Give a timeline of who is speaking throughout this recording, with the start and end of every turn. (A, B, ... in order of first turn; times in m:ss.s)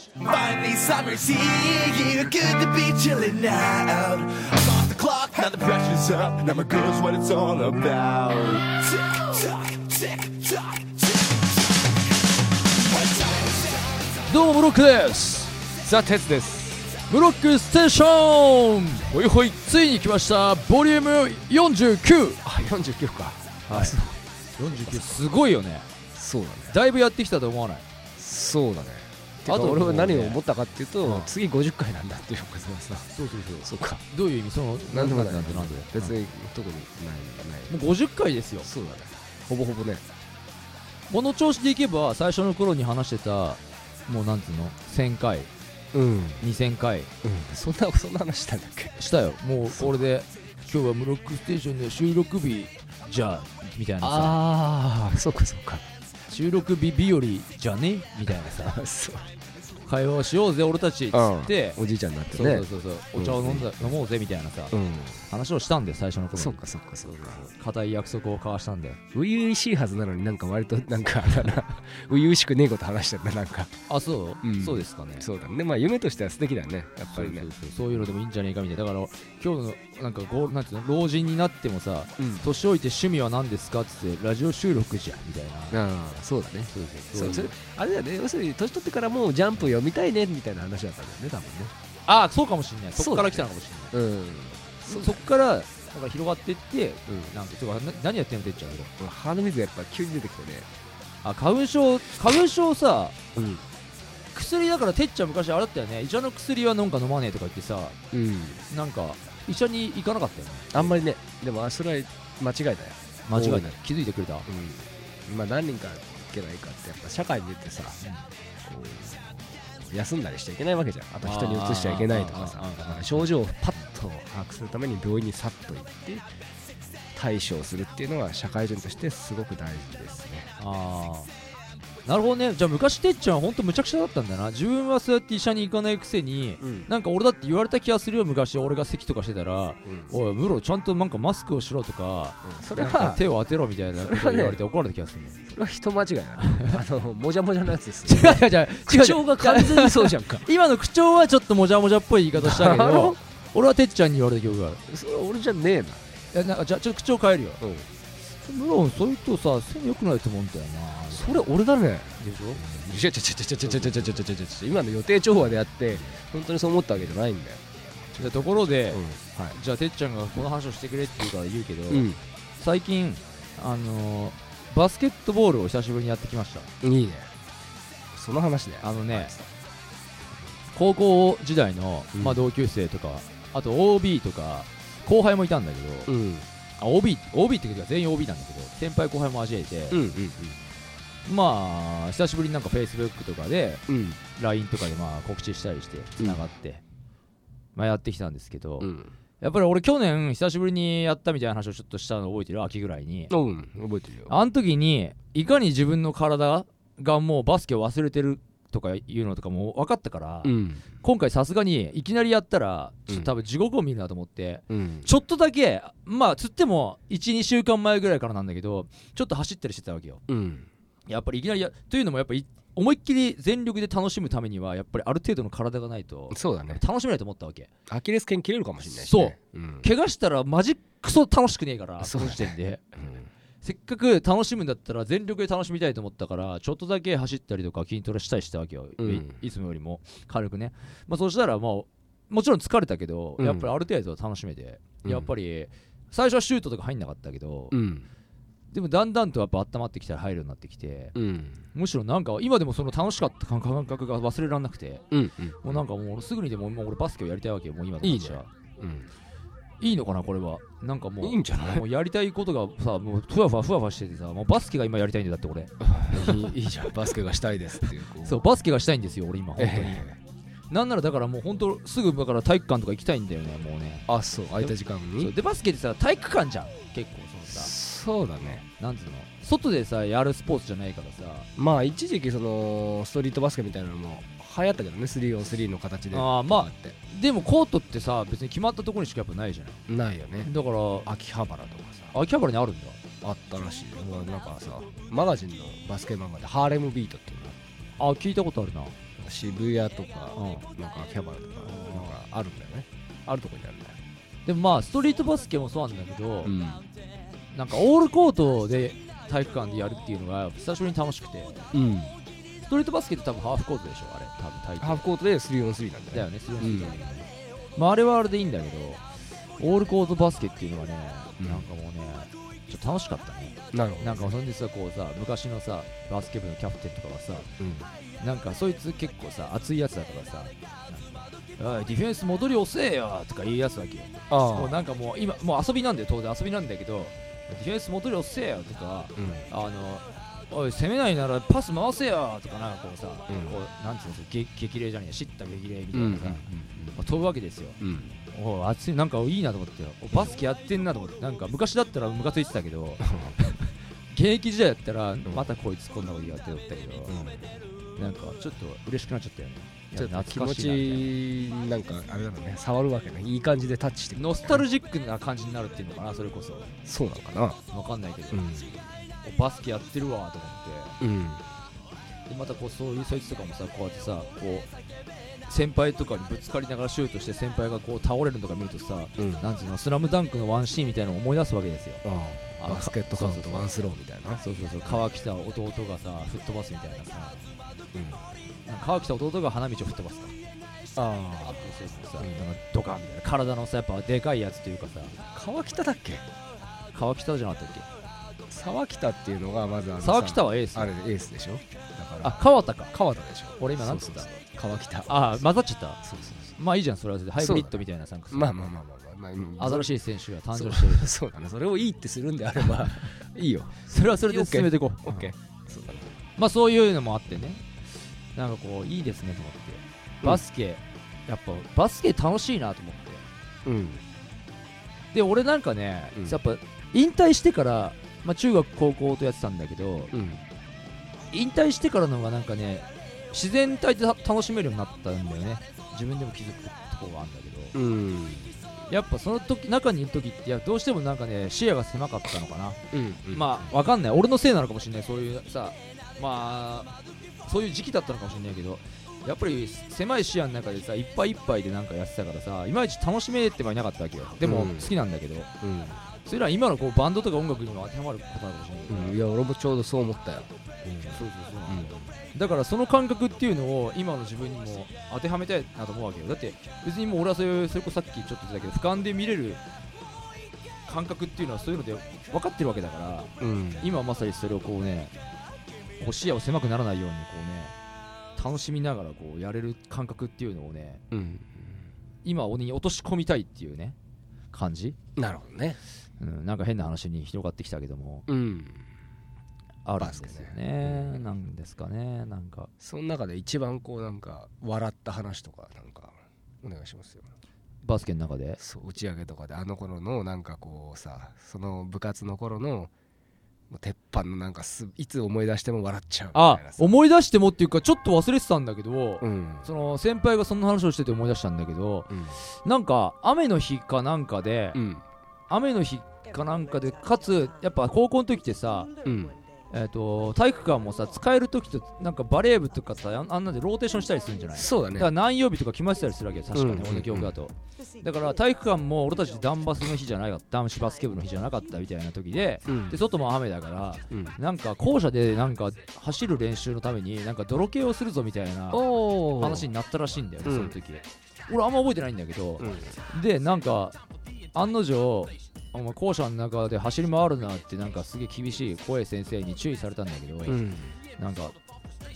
0:00.2-0:11.4 A
0:12.9-0:13.7 A
0:14.3-0:15.5 B
0:15.8-0:16.9 C
0:17.1-0:22.4 B
0:22.4-0:25.3 C
0:23.7-0:24.0 B
0:24.6-0:25.9 B
0:26.2-0:26.8 C
0:26.7-0:27.9 B
0:28.2-0:33.1 C
0:29.5-0:30.4 B
0:31.0-0:31.3 B
0:33.2-0:36.2 B
0:33.6-0:34.0 C
0:34.9-0:37.8 C
0:37.7-0:38.7 B
0:38.6-0:40.0 C
0:41.1-0:45.5 B
0:45.9-0:46.4 C
0:46.4-0:47.1 B
0:47.2-0:49.1 C
0:49.0-0:54.4 B
0:49.6-0:50.0 C
0:54.0-0:55.8 C
0:56.3-0:58.8 B
0:58.3-0:59.3 C
0:59.9-1:01.8 B
1:01.1-1:04.0 C
1:02.3-1:04.8 B
1:04.7-1:05.2 C
1:05.3-1:09.0 B
1:06.4-1:07.5 C
1:09.1-1:13.7 C
1:13.9-1:15.3 B
1:14.4-1:17.5 C
1:17.1-1:25.8 B
1:22.2-1:22.4 C
1:25.7-1:31.7 C
1:26.7-1:27.6 B
1:32.1-1:33.9 B
1:33.0-1:35.2 C
1:34.9-1:38.9 B
1:37.1-1:37.3 C
1:39.0-1:40.7 C
1:41.2-1:43.2 B
1:43.4-1:43.6 C
1:44.3-1:48.0 B
1:48.1-1:48.6 C
1:48.7-1:51.0 B
1:50.7-1:53.8 C
1:53.3-1:54.5 B
1:54.5-1:58.0 C
1:58.6-2:06.2 C
2:01.2-2:03.3 B
2:07.1-2:10.5 C
2:10.6-2:11.3 B
2:12.1-2:25.4 B
2:16.6-2:16.9 C
2:19.9-2:20.1 C
2:22.4-2:23.2 C
2:24.0-2:24.6 C
2:25.5-2:30.5 C
2:26.4-2:26.8 B
2:28.1-2:34.8 B
2:32.3-2:33.2 C
2:34.9-2:36.0 C
2:36.3-2:37.6 B
2:37.6-2:37.9 C
2:38.4-2:41.5 B
2:41.1-2:49.6 C
2:42.2-2:42.6 B
2:43.6-2:44.2 B
2:48.2-2:56.7 B
2:51.9-2:52.2 C
2:56.8-2:57.3 C
2:58.1-2:59.5 C
2:58.8-2:59.3 B
3:00.7-3:06.1 B
3:02.2-3:02.4 C
3:06.1-3:06.5 C
3:06.8-3:10.0 B
3:09.9-3:10.6 C
3:11.3-3:13.8 B
3:13.9-3:14.2 C
3:14.4-3:16.8 B
3:16.2-3:16.4 C
3:17.8-3:18.9 B
3:18.8-3:19.1 C
3:19.4-3:23.3 B
3:23.3-3:24.3 C
3:24.3-3:40.2 B
3:30.4-3:30.8 C
3:34.7-3:35.1 C
3:40.3-3:40.7 C
3:41.1-3:47.7 B
3:46.3-3:46.8 C
3:47.9-3:49.9 C
3:49.0-3:52.8 B
3:52.0-3:53.3 C
3:53.6-4:07.8 B
3:59.0-3:59.4 C
4:03.4-4:03.7 C
4:05.0-4:05.3 C
4:07.7-4:08.1 C
4:08.7-4:11.2 B
4:11.2-4:11.6 C
4:11.7-4:15.0 B
4:15.1-4:15.8 C
4:15.6-4:18.5 B
4:18.0-4:19.1 C
4:19.8-4:26.6 B
4:21.2-4:21.8 C
4:25.9-4:28.5 C
4:27.8-4:30.1 B
4:29.6-4:30.2 C
4:30.7-4:34.1 B
4:34.1-4:35.3 C
4:34.6-4:37.7 B
4:37.5-4:38.6 C
4:38.6-4:41.5 B
4:41.6-4:47.0 C
4:46.1-4:49.8 B
4:49.9-4:50.5 C
4:50.4-4:51.1 B
4:51.0-4:52.1 C
4:52.1-4:53.0 B
4:53.2-4:57.6 C
4:58.0-4:59.0 B
4:59.2-5:04.0 C
5:00.4-5:00.7 B
5:01.7-5:02.1 B
5:04.5-5:06.5 B
5:06.4-5:06.8 C
5:07.5-5:11.7 B
5:11.7-5:12.2 C
5:12.7-5:15.0 B
5:14.8-5:17.2 C
5:16.1-5:19.0 B
5:19.6-5:27.5 B
5:21.4-5:21.7 C
5:23.7-5:24.4 C
5:27.6-5:27.9 C
5:28.2-5:47.8 B
5:34.3-5:34.8 C
5:39.2-5:39.5 C
5:43.3-5:43.6 C
5:45.9-5:47.0 C
5:47.8-5:48.2 C
5:48.3-5:57.2 B
5:53.0-5:53.4 C
5:57.1-5:57.6 C
5:58.0-6:01.1 B
5:59.9-6:04.6 C
6:04.2-6:06.8 B
6:06.8-6:07.6 C
6:07.7-6:08.5 B
6:08.3-6:08.8 C
6:09.2-6:11.0 B
6:11.0-6:11.4 C
6:12.3-6:14.7 B
6:15.5-6:22.0 B
6:19.2-6:19.5 C
6:22.0-6:25.0 C
6:22.6-6:23.7 B
6:24.4-6:27.4 B
6:27.9-6:28.2 C
6:28.7-6:30.3 B
6:31.0-6:32.5 C
6:31.4-6:35.2 B
6:35.3-6:36.3 C
6:36.9-6:37.9 B
6:38.5-6:45.4 C
6:40.0-6:40.9 B
6:42.2-6:42.9 B
6:43.6-6:44.3 B
6:45.1-6:46.0 B
6:46.0-6:46.5 C
6:46.6-6:48.5 B
6:47.4-6:49.9 C
6:49.6-6:51.1 B
6:50.5-6:56.2 C
6:53.9-6:55.3 B
6:56.4-6:57.7 B
6:58.4-7:03.2 B
7:03.6-7:04.0 C
7:05.1-7:10.1 B
7:10.1-7:10.4 C
7:11.3-7:17.8 B
7:17.7-7:18.6 C
7:18.9-7:22.8 B
7:22.9-7:23.7 C
7:23.3-7:26.9 B
7:27.4-7:35.5 B
7:34.4-7:34.9 C
7:35.6-7:36.0 C
7:36.2-7:39.2 B
7:38.9-7:42.1 C
7:41.1-7:49.6 B
7:50.9-7:55.1 B
7:53.4-7:54.0 C
7:56.0-7:57.8 B
7:58.4-8:01.0 B
8:01.1-8:01.8 C
8:02.2-8:04.0 B
8:04.5-8:05.0 B
8:05.2-8:05.8 C
8:06.2-8:08.3 B
8:08.3-8:08.9 C
8:09.8-8:12.7 B
8:10.0-8:11.2 C
8:12.8-8:17.3 C
8:17.8-8:18.6 B
8:18.6-8:22.9 C
8:23.7-8:27.0 C
8:26.3-8:34.8 B
8:29.2-8:29.7 C
8:32.1-8:32.4 C
8:34.7-8:35.0 C
8:35.5-8:38.9 B
8:39.0-8:39.4 C
8:39.7-9:04.0 B
8:44.5-8:45.1 C
8:46.5-8:47.4 C
8:52.7-8:53.0 C
8:54.1-8:54.4 C
8:58.7-8:59.7 C
9:00.4-9:00.8 C
9:02.6-9:02.9 C
9:04.5-9:10.6 B
9:10.5-9:11.0 C
9:11.2-9:11.6 B